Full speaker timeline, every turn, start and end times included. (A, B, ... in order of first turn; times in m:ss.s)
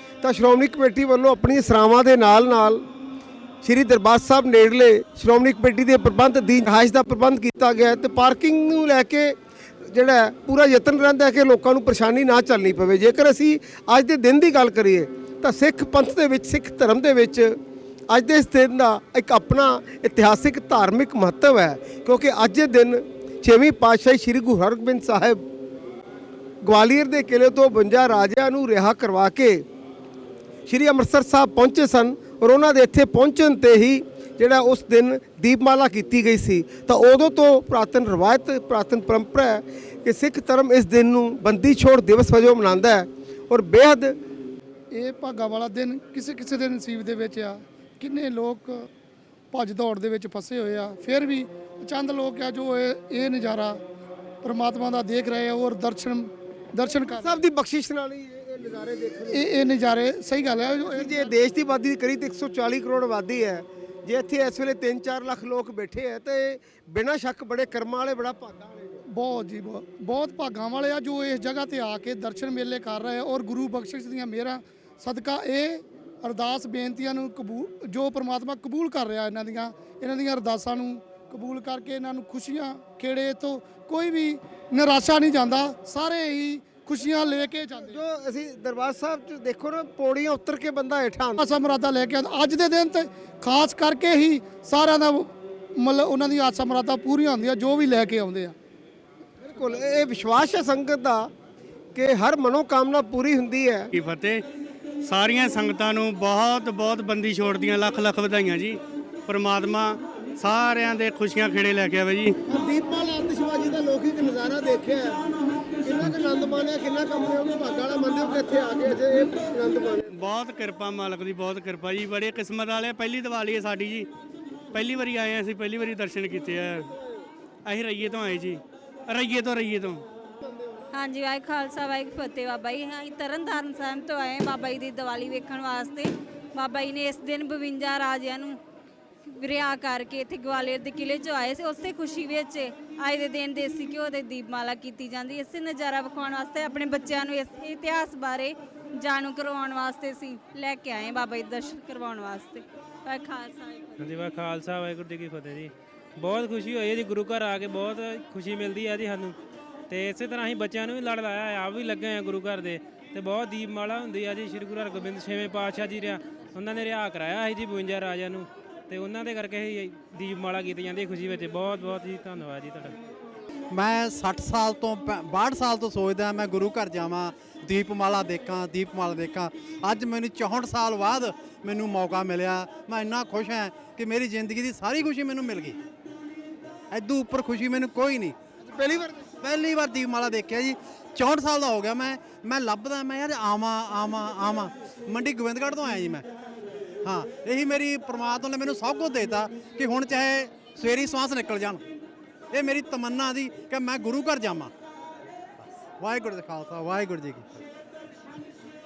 0:00.2-0:02.8 A
0:03.6-0:17.6 A
0:18.1-0:25.4 A
0:26.6-0:29.6 A
0:30.7-0:44.2 A
0:44.9-0:48.9 B
0:49.5-0:53.8 B
0:54.4-0:57.4 B
0:57.2-0:59.4 A
0:59.3-1:01.2 B
1:00.8-1:09.0 A
1:09.1-1:28.0 B
1:27.8-1:31.4 A
1:31.4-1:38.5 B
1:39.4-1:41.3 A
1:41.9-1:43.9 A
1:43.9-1:44.4 C
1:45.0-1:52.3 C
1:52.5-1:55.2 A
1:55.8-2:00.0 A
2:00.1-2:04.1 C
2:04.7-2:06.9 C
2:07.6-2:10.0 C
2:10.9-2:18.6 D
2:19.3-2:34.1 D
2:34.0-2:39.3 E
2:39.9-2:52.9 E
2:53.7-3:05.8 F
3:06.9-3:08.4 F
3:08.6-3:09.2 A
3:09.4-3:16.3 F
3:17.0-3:21.8 F
3:22.5-3:24.7 F
3:25.6-3:27.6 F